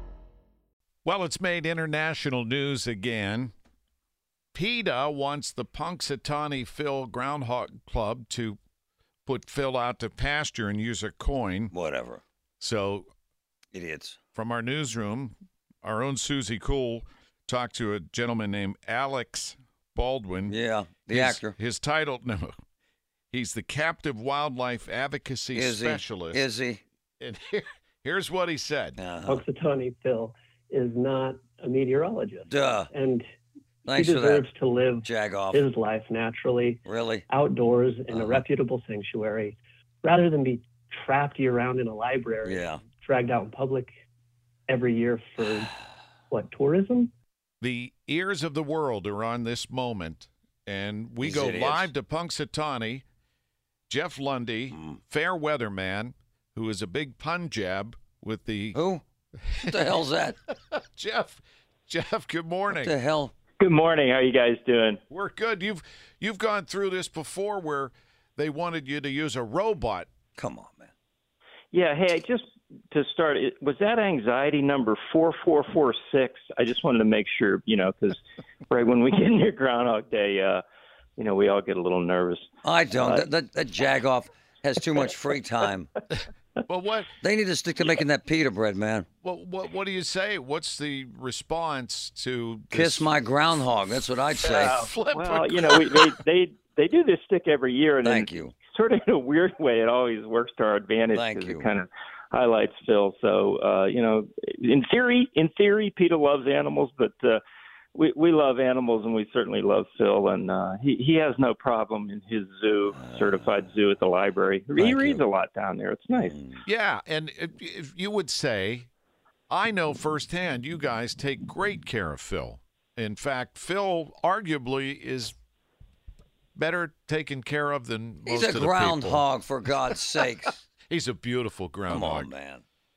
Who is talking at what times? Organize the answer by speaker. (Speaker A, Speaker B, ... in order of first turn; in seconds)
Speaker A: 1.0-3.5, 4.5-8.6, 9.2-11.7, 12.6-13.1, 14.3-22.5, 23.3-26.4, 27.2-29.0, 47.6-53.0, 53.9-58.8, 60.5-62.9, 65.1-70.1, 86.2-87.1, 89.2-93.1, 94.5-96.1, 116.7-118.9, 119.5-125.3, 126.5-129.2, 130.9-132.3
Speaker B: 11.7-12.2, 13.7-14.2, 20.5-21.5, 25.5-26.8, 29.0-29.4, 32.5-32.9, 33.8-34.5, 35.0-35.7, 36.8-37.2, 38.1-38.4, 42.4-42.8, 51.2-51.9, 58.7-59.0, 59.7-60.4, 62.7-63.3, 70.3-70.9, 82.6-85.9, 87.2-89.1, 92.7-94.8, 98.0-98.5, 101.1-101.7, 114.8-115.2, 116.3-116.6, 128.2-130.6, 131.9-132.6
Speaker C: 29.3-33.2, 33.9-43.9, 44.7-45.7, 46.3-47.1
Speaker D: 63.6-65.0, 71.7-80.6, 81.2-82.5, 95.1-107.4, 107.9-116.4